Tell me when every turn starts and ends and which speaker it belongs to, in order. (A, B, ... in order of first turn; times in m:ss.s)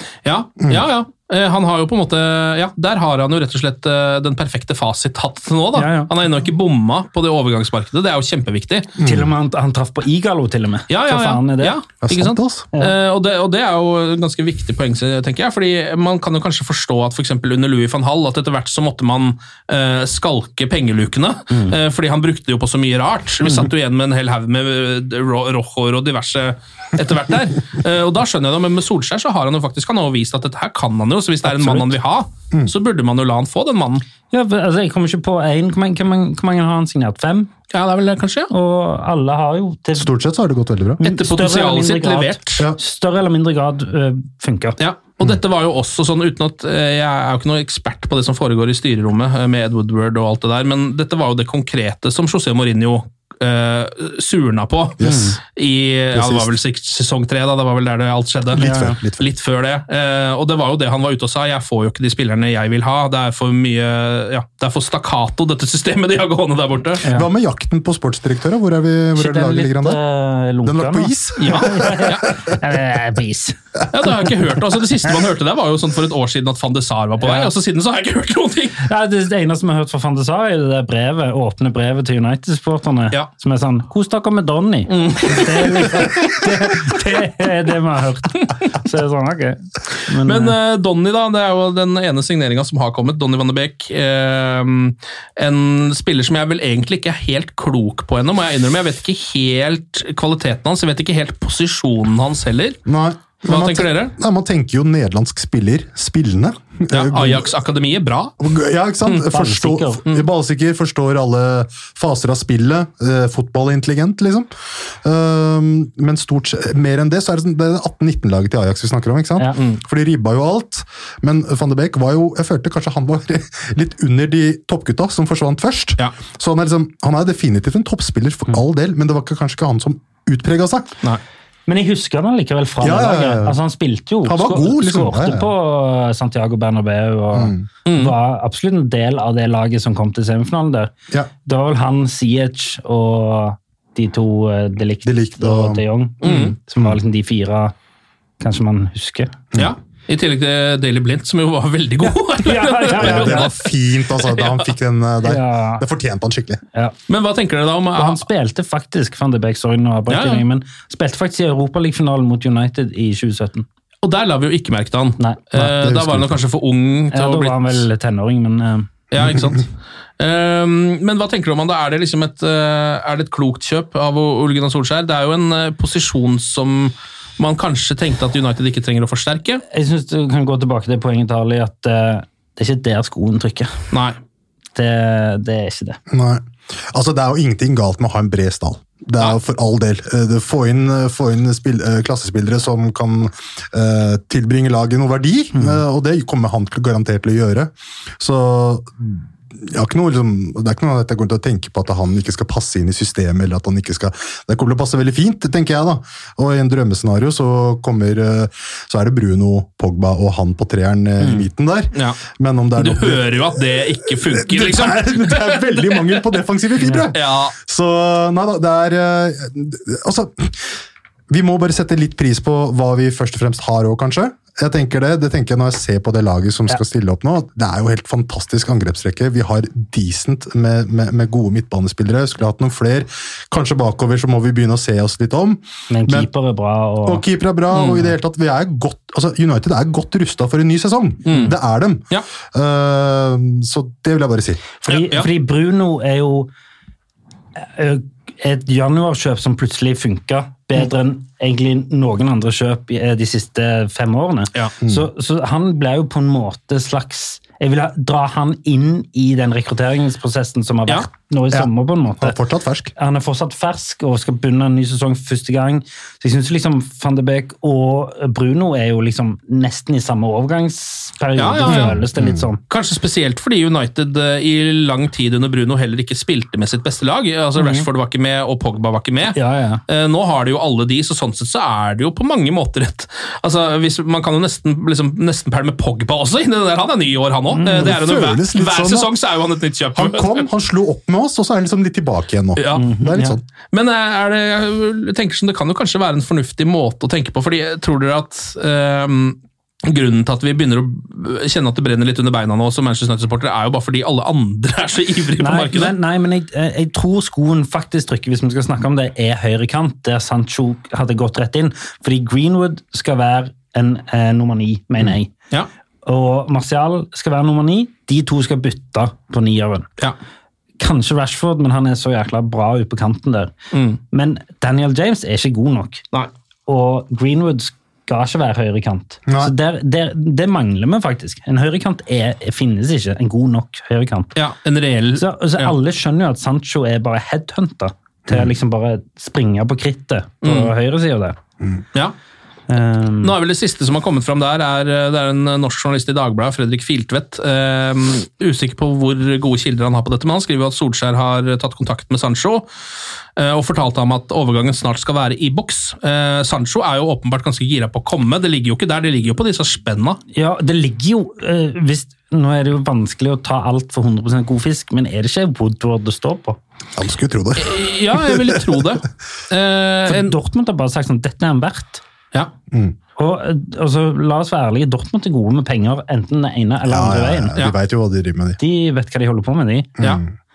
0:00.2-0:09.0 A
0:05.7-0:06.1 B
0:09.0-0:09.3 C
0:09.0-0:11.8 B
0:10.9-0:34.0 A
0:12.0-0:12.6 C
0:31.4-0:31.9 C
0:34.3-0:37.5 B
0:37.7-0:38.5 A
0:38.5-0:40.1 B
0:40.0-0:41.0 C
0:41.0-0:44.8 B
0:41.0-0:42.6 A
0:44.8-0:58.6 A
0:55.0-0:55.4 C
0:55.0-0:55.4 B
0:56.1-0:56.6 C
0:58.5-0:59.2 C
0:58.6-0:59.0 B
0:59.2-1:07.0 A
1:07.0-1:10.0 C
1:09.2-1:13.6 B
1:10.6-1:12.3 C
1:11.4-1:12.3 A
1:13.9-1:18.8 A
1:17.2-1:17.5 B
1:18.8-1:30.5 B
1:24.9-1:26.4 A
1:30.2-1:42.8 A
1:42.8-1:47.5 C
1:43.4-1:44.1 A
1:46.9-1:48.3 A
1:48.4-1:54.5 C
1:49.3-1:50.0 B
1:55.0-2:10.9 C
2:11.7-2:20.9 B
2:12.8-2:13.6 C
2:14.2-2:15.5 C
2:17.3-2:17.7 C
2:17.8-2:18.1 A
2:21.4-2:27.7 B
2:25.0-2:27.0 C
2:26.2-2:26.5 A
2:28.4-2:29.4 B
2:29.6-2:34.7 A
2:32.4-2:33.5 B
2:33.0-2:36.6 C
2:35.2-2:35.8 B
2:37.1-2:38.2 A
2:38.0-2:43.6 B
2:40.1-2:40.4 A
2:44.0-2:47.8 A
2:45.6-2:46.4 C
2:47.1-2:48.9 B
2:49.1-2:49.7 A
2:50.2-2:59.6 A
2:59.7-3:03.8 B
3:03.9-3:04.2 A
3:04.7-3:06.0 B
3:06.1-3:40.8 C
3:15.5-3:15.8 B
3:31.9-3:32.2 A
3:32.8-3:36.1 A
3:36.8-3:37.1 B
3:37.1-3:37.5 A
3:41.3-3:56.3 C
3:55.9-3:57.2 B
3:57.0-4:04.6 C
3:57.7-3:58.1 A
4:01.2-4:01.5 A
4:04.8-4:06.5 B
4:04.9-4:05.3 A
4:07.6-4:22.4 B
4:22.2-4:22.9 C
4:23.0-4:32.6 B
4:31.4-4:32.0 A
4:31.6-4:32.5 C
4:32.7-4:50.4 A
4:37.6-4:37.8 B
4:39.3-4:39.8 B
4:47.5-4:47.9 B
4:47.6-4:49.1 C
4:50.0-4:53.4 C
4:52.6-4:52.8 A
4:52.8-4:53.4 B
4:53.7-5:05.9 A
5:05.4-5:15.3 B
5:16.0-5:19.9 B
5:20.8-5:23.5 B
5:23.7-5:24.0 A
5:24.1-5:26.0 B
5:26.7-5:34.3 B
5:29.3-5:29.5 C
5:34.3-5:35.7 A
5:35.2-5:41.4 B
5:40.4-5:40.7 A
5:42.7-5:43.3 B
5:43.2-5:52.7 A
5:53.4-6:00.2 A
6:00.3-6:06.6 B
6:06.9-6:08.8 C
6:07.6-6:10.3 A
6:10.1-6:12.0 B
6:13.2-6:17.6 B
6:16.9-6:18.6 C
6:18.6-6:19.9 B
6:20.0-6:20.3 C